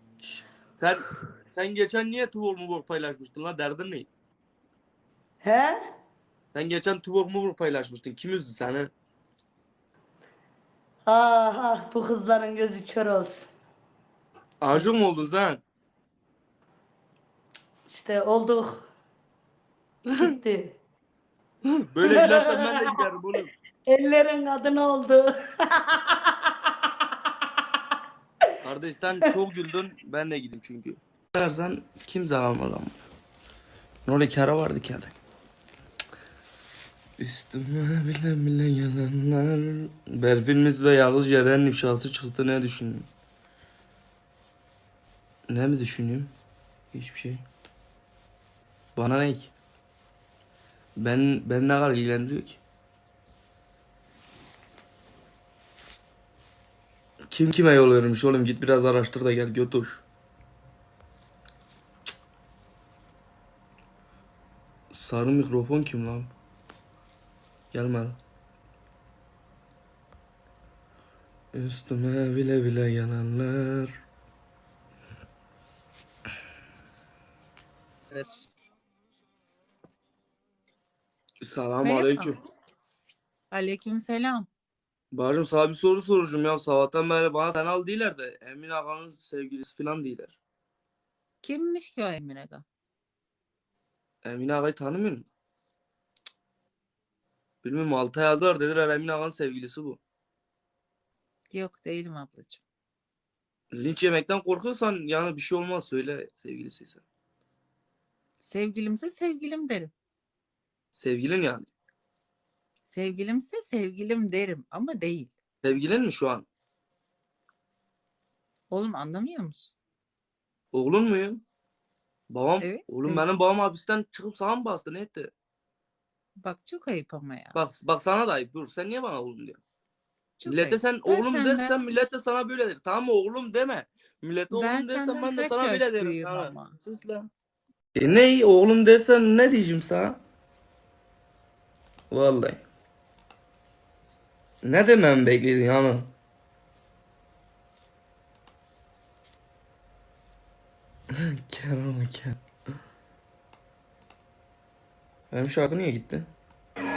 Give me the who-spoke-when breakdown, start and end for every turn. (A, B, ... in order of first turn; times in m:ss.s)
0:00.2-0:04.1 A
0:05.4-0:05.8 B
0:06.5-0:08.9 A
0:11.0-0:13.5 B
0:14.6-0:15.6 A
0:17.9-0:18.9 B
0:20.2-0:20.8 B
0:21.8-0:23.5 A
0:22.0-0:22.9 B
0:23.9-0:26.5 B
0:28.6-0:33.0 A
0:34.0-0:35.1 A
0:37.2-0:43.1 A
0:45.5-0:46.3 A
0:46.9-0:47.4 A
0:49.0-0:49.5 A
0:51.0-0:52.6 A
0:57.3-1:00.0 A
1:04.9-1:06.3 A
1:07.7-1:08.2 A
1:11.5-1:14.0 A
1:21.4-1:22.4 A
1:21.8-1:22.4 C
1:23.5-1:24.5 C
1:25.1-1:30.4 A
1:31.4-1:32.6 C
1:34.2-1:35.3 A
1:37.6-1:40.0 A
1:41.5-1:42.6 C
1:43.7-1:47.0 A
1:48.4-1:49.9 C
1:50.9-1:51.7 A
1:52.9-1:55.3 C
1:55.6-1:56.5 A
1:58.7-1:59.7 C
2:00.7-2:01.4 A
2:02.3-2:05.3 A
2:02.6-2:03.3 C
2:06.4-2:07.6 C
2:07.5-2:09.6 A
2:10.4-2:11.8 C
2:10.5-2:17.3 A
2:14.5-2:16.8 C
2:18.0-2:20.2 A
2:22.1-2:22.6 A
2:24.6-2:26.1 A
2:31.4-2:32.4 A
2:35.3-2:36.3 A